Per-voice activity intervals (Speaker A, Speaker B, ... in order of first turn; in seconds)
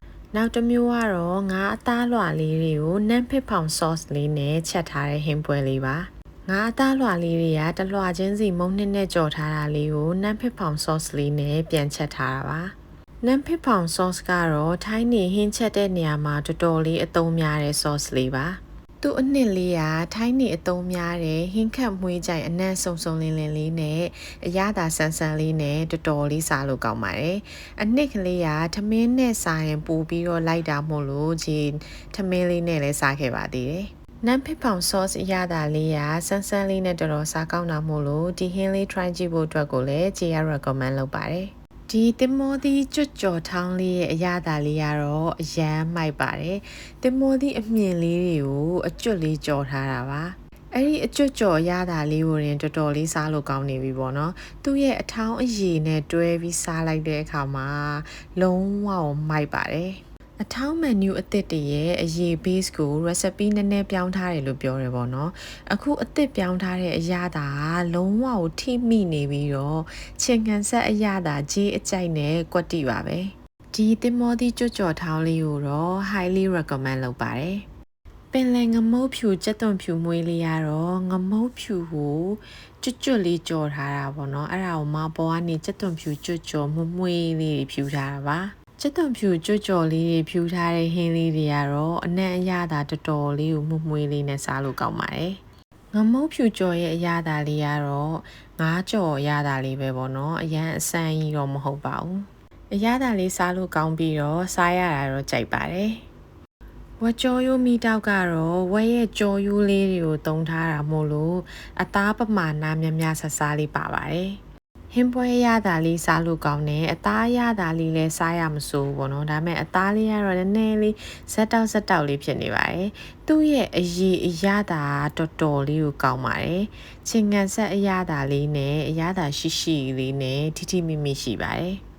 Speaker A: 0.3-77.6, 78.3-95.4, 95.9-106.0, 107.0-114.4, 114.9-131.8